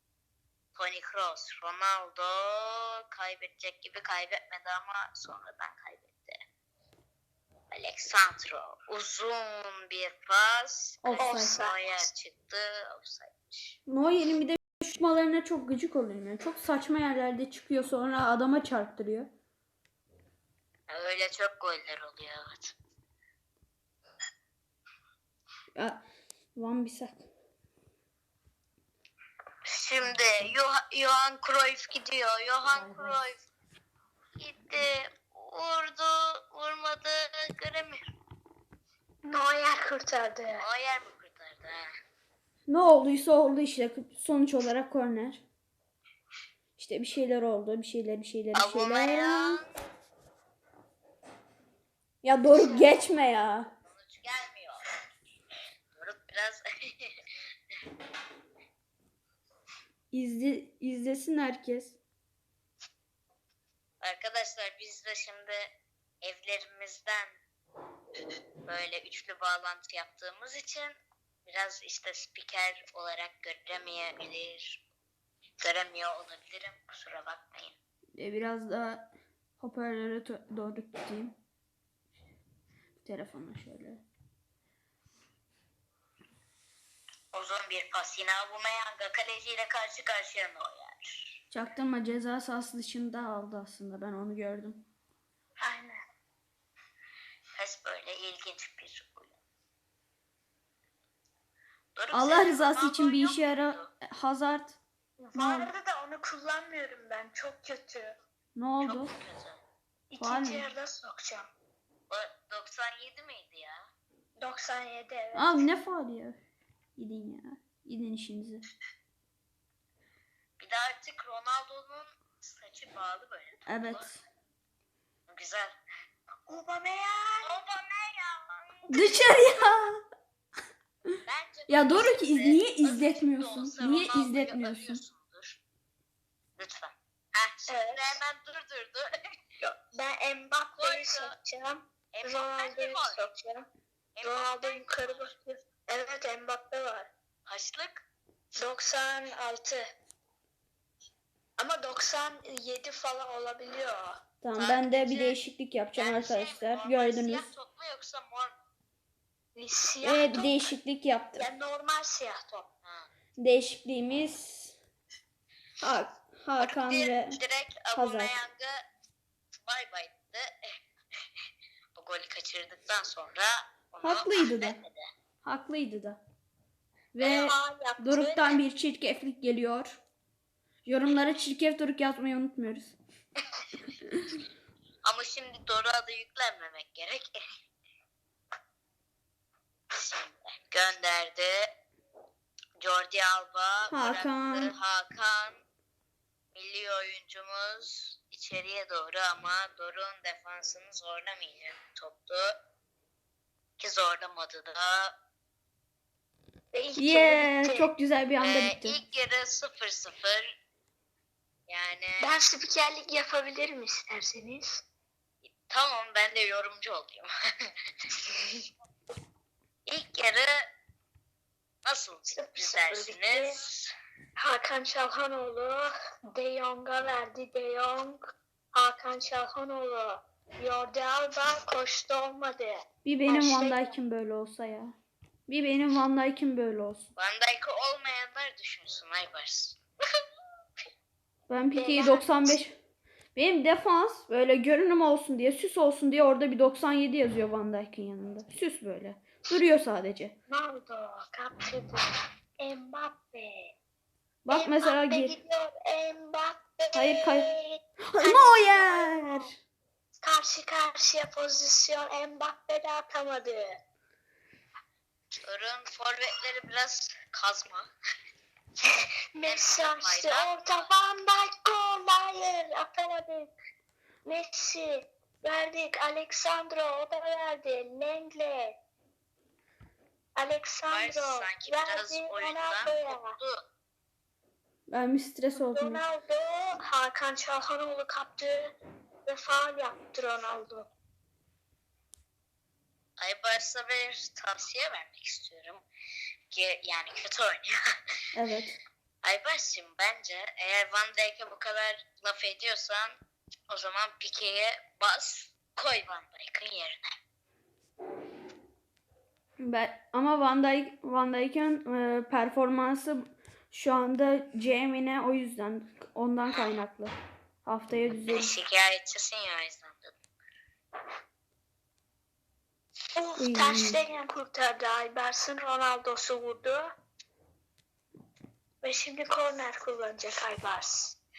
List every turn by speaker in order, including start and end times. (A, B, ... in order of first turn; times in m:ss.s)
0:00.7-0:06.4 A
0:07.7-0:13.8 A
0:11.0-0:11.6 B
0:11.2-0:12.0 C
0:13.9-0:19.3 B
0:20.9-0:22.7 A
0:25.7-0:26.0 B
0:26.6-0:27.3 B
0:29.6-0:33.4 A
0:32.7-0:33.2 B
0:34.4-0:38.0 A
0:39.2-0:40.6 C
0:40.6-0:41.9 A
0:42.7-0:45.4 B
0:46.8-0:49.6 B
0:48.5-0:49.7 A
0:52.2-0:53.7 B
0:53.8-0:54.8 A
0:55.9-0:57.1 A
1:00.1-1:02.0 B
1:04.0-1:05.6 A
1:06.2-1:07.4 A
1:08.6-1:14.8 A
1:15.6-1:17.8 A
1:18.2-1:19.1 B
1:19.6-1:21.4 B
1:23.0-1:24.0 B
1:27.3-1:31.4 A
1:31.5-1:34.8 B
1:35.6-1:36.0 C
1:37.6-1:39.4 A
1:41.9-1:43.9 A
1:42.1-1:44.8 B
1:45.2-1:48.1 C
1:45.3-1:45.7 B
1:48.6-1:49.1 B
1:48.8-1:49.6 A
1:50.1-1:51.5 C
1:50.2-1:50.6 B
1:52.1-1:53.8 A
1:54.4-1:55.7 C
1:55.3-1:56.4 B
1:57.0-1:58.6 B
2:00.6-2:04.1 A
2:03.6-2:04.2 B
2:05.3-2:05.7 A
2:06.5-2:07.5 C
2:07.4-2:08.9 A
2:08.9-2:10.0 B
2:11.2-2:15.6 A
2:11.7-2:15.0 B
2:16.6-2:19.1 A
2:17.7-2:18.1 C
2:19.6-2:23.7 C
2:20.8-2:21.3 A
2:22.1-2:23.3 A
2:24.2-2:25.3 A
2:24.2-2:27.1 C
2:27.4-2:28.0 A
2:28.6-2:29.8 C
2:31.6-2:34.2 C
2:34.4-2:37.5 B
2:34.5-2:35.4 A
2:35.9-2:38.6 A
2:39.5-2:40.7 C
2:40.0-2:41.5 B
2:41.4-2:42.7 C
2:42.8-2:43.1 A
2:43.4-2:44.8 B
2:45.8-2:47.4 B
2:46.6-2:48.8 A
2:47.9-2:48.4 B
2:49.6-2:50.5 A
2:51.9-2:55.0 A
2:54.0-2:54.8 B
2:55.4-2:56.2 B
2:57.1-3:00.0 B
2:57.2-2:57.4 A
2:57.2-2:58.6 C
3:00.8-3:03.0 B
3:05.0-3:07.4 A
3:09.9-3:11.7 A
3:12.8-3:15.6 A
3:13.9-3:14.7 B
3:16.5-3:22.5 A
3:23.8-3:25.1 A
3:26.7-3:27.9 C
3:27.0-3:29.0 B
3:28.4-3:30.5 A
3:31.7-3:32.3 A
3:32.2-3:34.8 C
3:35.7-3:37.3 A
3:38.1-3:38.6 A
3:39.8-3:40.6 A
3:41.8-3:43.9 A
3:42.3-3:43.6 C
3:44.4-3:48.2 C
3:48.7-3:53.9 C
3:53.0-3:55.0 B
3:55.5-3:57.1 B
3:57.2-3:59.8 A
4:01.5-4:02.8 B
4:01.7-4:02.6 C
4:03.3-4:10.3 B
4:10.5-4:12.0 C
4:12.6-4:13.7 C
4:14.4-4:15.4 B
4:14.5-4:19.5 C
4:16.9-4:17.5 B
4:18.1-4:19.6 B
4:20.2-4:23.7 C
4:25.4-4:27.9 A
4:29.3-4:33.5 C
4:29.4-4:30.9 A
4:34.2-4:38.7 C
4:40.4-4:43.3 C
4:40.9-4:43.6 A
4:44.9-4:46.0 B
4:45.6-4:48.7 C
4:49.2-4:50.9 C
4:53.2-4:55.8 A
4:56.5-4:57.7 A
4:58.3-4:58.8 B
4:59.2-5:03.2 A
5:03.7-5:07.0 A
5:09.6-5:18.5 B
5:16.5-5:16.7 A
5:18.3-5:20.2 A
5:23.2-5:26.9 C
5:23.4-5:24.0 B
5:28.8-5:31.2 C